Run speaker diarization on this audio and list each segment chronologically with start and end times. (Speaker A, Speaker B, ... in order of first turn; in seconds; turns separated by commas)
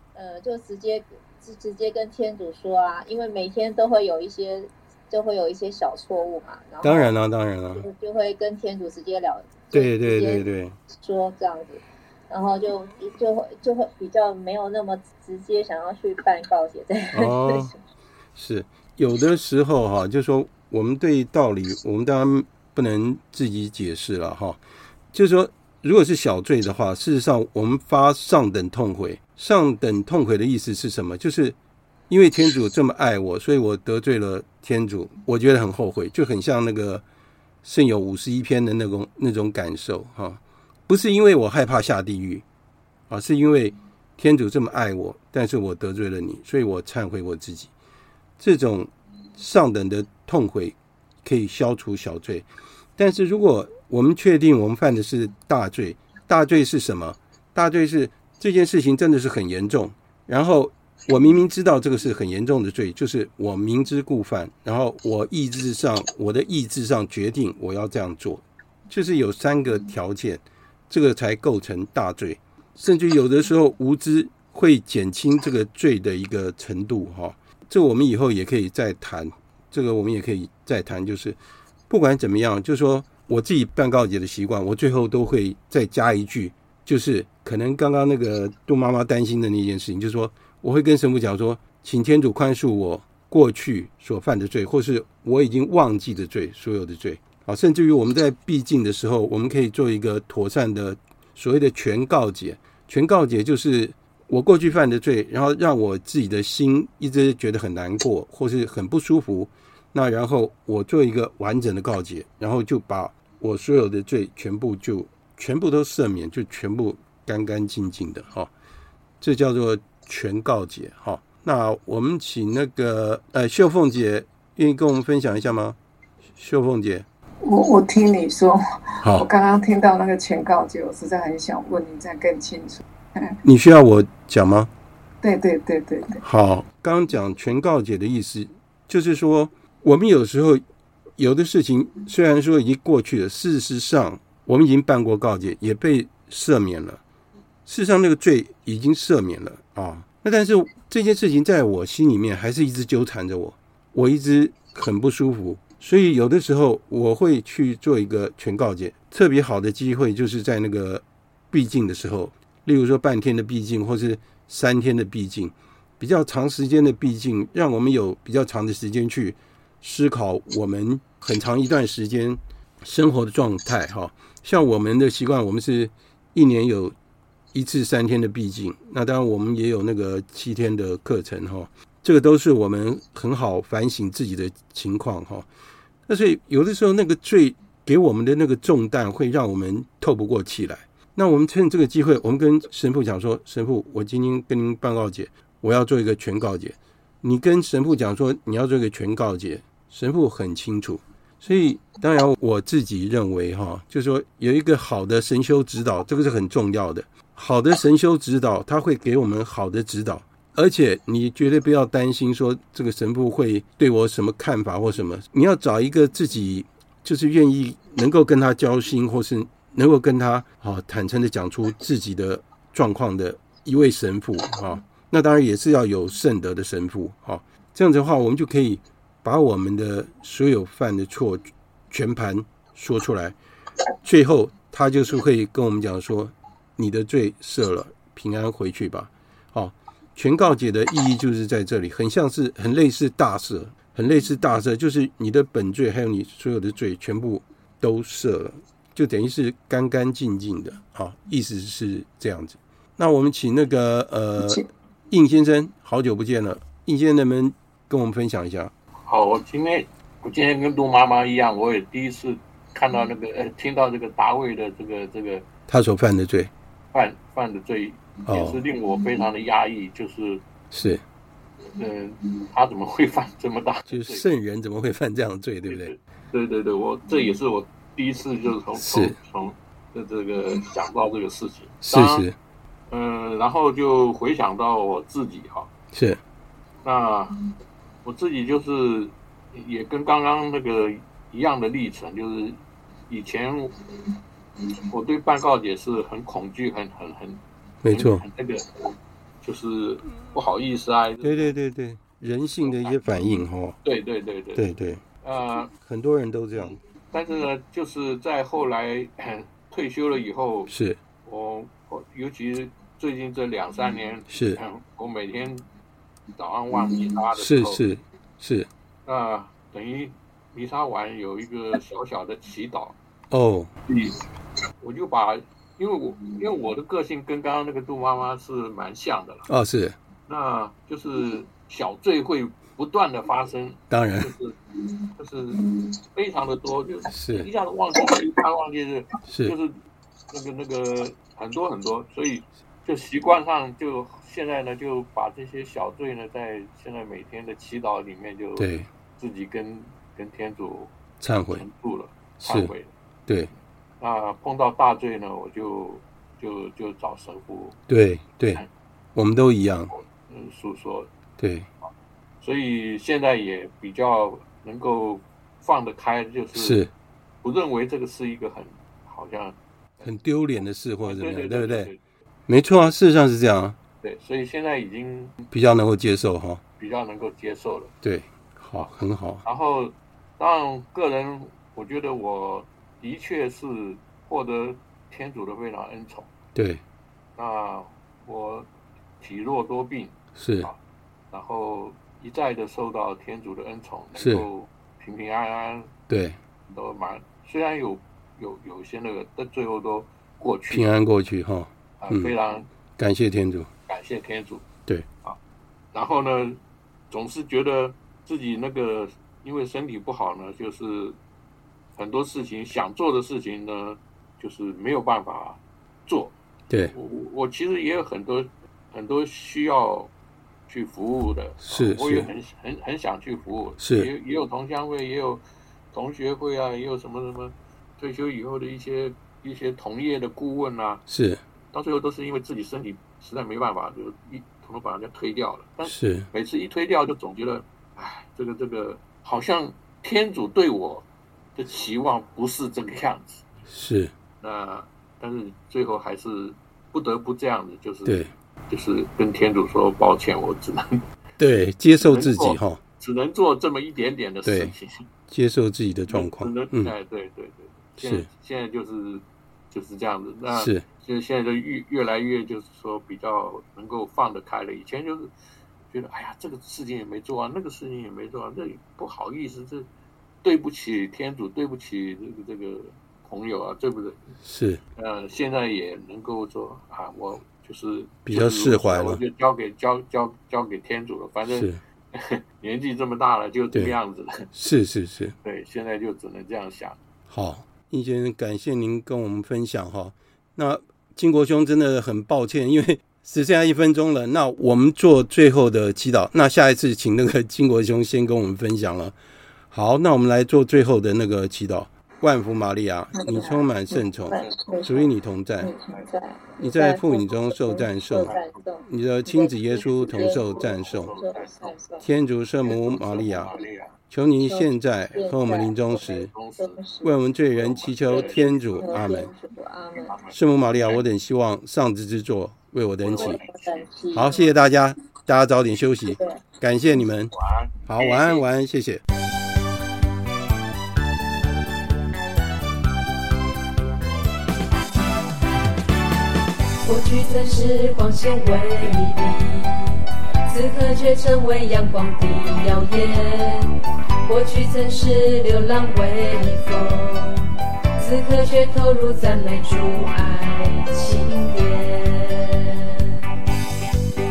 Speaker A: 0.1-7.1, Speaker B: 6.8-7.8, Speaker A: 7.8-17.8, Speaker B: 9.7-10.8, Speaker B: 17.1-17.7, Speaker B: 18.4-24.6, Speaker B: 25.1-31.6, Speaker B: 32.1-37.0, Speaker B: 37.6-42.4, Speaker B: 43.1-47.7, Speaker B: 48.4-81.4, Speaker B: 81.9-118.5, Speaker B: 119.2-125.8, Speaker B: 126.3-127.1, Speaker C: 127.4-132.8, Speaker B: 133.4-134.7, Speaker C: 135.2-136.2, Speaker B: 136.2-140.6, Speaker B: 141.2-147.0, Speaker B: 147.7-176.9, Speaker B: 177.5-185.5, Speaker B: 186.1-233.4, Speaker B: 234.0-258.7, Speaker D: 259.1-265.4, Speaker B: 265.7-266.5, Speaker D: 266.9-270.4, Speaker B: 268.2-268.6, Speaker B: 270.7-271.0, Speaker D: 271.7-274.2, Speaker B: 273.9-275.9, Speaker D: 275.7-282.2, Speaker B: 278.8-279.1, Speaker B: 281.8-282.4, Speaker D: 282.9-285.7, Speaker B: 285.9-286.2, Speaker D: 286.8-287.4, Speaker D: 288.0-293.8, Speaker D: 294.9-298.9, Speaker B: 297.8-298.2, Speaker D: 299.4-301.5, Speaker B: 301.2-303.8, Speaker D: 302.6-302.9, Speaker D: 303.8-304.6, Speaker B: 304.5-305.0, Speaker D: 305.2-305.7, Speaker B: 305.8-306.8, Speaker D: 306.6-310.7, Speaker B: 310.7-311.0, Speaker D: 311.2-315.6, Speaker B: 314.3-314.6, Speaker D: 316.4-317.8, Speaker B: 317.4-318.7, Speaker D: 319.1-323.0, Speaker B: 323.3-323.7, Speaker D: 323.9-324.2, Speaker D: 324.8-329.4, Speaker B: 329.5-330.0, Speaker D: 330.3-334.6, Speaker B: 333.9-334.3, Speaker D: 335.2-335.6, Speaker D: 336.1-339.8, Speaker B: 337.1-337.5, Speaker B: 339.3-339.5, Speaker D: 340.3-350.9, Speaker B: 348.6-348.9, Speaker B: 351.2-351.6, Speaker D: 351.5-352.9, Speaker B: 352.4-352.7, Speaker D: 354.0-357.8, Speaker B: 357.9-358.6, Speaker B: 359.1-359.9, Speaker D: 360.2-361.1, Speaker B: 361.4-361.7, Speaker D: 362.4-366.8, Speaker B: 366.5-366.9, Speaker D: 367.4-370.1, Speaker B: 370.0-371.9, Speaker D: 371.0-372.0, Speaker B: 372.5-373.8, Speaker D: 374.0-375.4, Speaker B: 375.5-376.6, Speaker D: 376.8-377.9, Speaker B: 378.0-379.4, Speaker D: 379.4-386.3, Speaker B: 386.5-386.8, Speaker D: 387.4-388.7, Speaker D: 389.2-390.8, Speaker B: 390.4-390.7, Speaker D: 391.3-395.9, Speaker B: 394.2-394.4, Speaker B: 396.1-396.4, Speaker D: 396.7-400.9, Speaker B: 400.7-402.3, Speaker D: 402.0-402.7, Speaker B: 403.0-403.7, Speaker D: 403.9-404.7, Speaker D: 405.9-411.2, Speaker D: 411.9-416.4, Speaker D: 416.9-420.1, Speaker D: 420.7-431.0, Speaker B: 421.6-422.3, Speaker B: 423.8-424.1, Speaker B: 431.1-431.4, Speaker D: 431.7-443.5, Speaker B: 435.8-436.3, Speaker B: 443.7-444.1, Speaker D: 444.4-451.0, Speaker B: 448.0-448.3, Speaker B: 451.4-452.8, Speaker D: 452.0-455.1, Speaker B: 454.4-454.7, Speaker B: 455.3-456.9, Speaker D: 456.1-465.3, Speaker B: 458.0-458.3, Speaker B: 460.5-460.8, Speaker D: 465.9-469.9, Speaker D: 470.4-474.3, Speaker B: 474.4-474.8, Speaker D: 474.9-484.5, Speaker B: 478.2-479.2, Speaker B: 481.4-481.8, Speaker B: 484.5-485.3, Speaker D: 485.4-487.0, Speaker B: 487.3-499.1, Speaker B: 499.7-505.7, Speaker A: 503.1-512.0, Speaker D: 504.3-504.8, Speaker B: 506.6-508.3, Speaker D: 508.2-508.6, Speaker B: 508.9-511.1, Speaker D: 510.2-511.7, Speaker B: 512.0-513.5, Speaker D: 512.6-513.9, Speaker B: 514.1-516.3, Speaker A: 514.4-515.8, Speaker D: 515.1-516.8, Speaker A: 516.5-517.1, Speaker B: 517.0-519.3, Speaker D: 517.5-519.3, Speaker A: 518.8-520.2, Speaker D: 519.9-521.0, Speaker B: 520.3-523.4, Speaker D: 523.0-523.9, Speaker A: 523.2-524.5, Speaker B: 524.1-527.3, Speaker A: 526.1-526.4, Speaker D: 527.3-528.5, Speaker B: 527.9-529.0, Speaker E: 536.8-553.1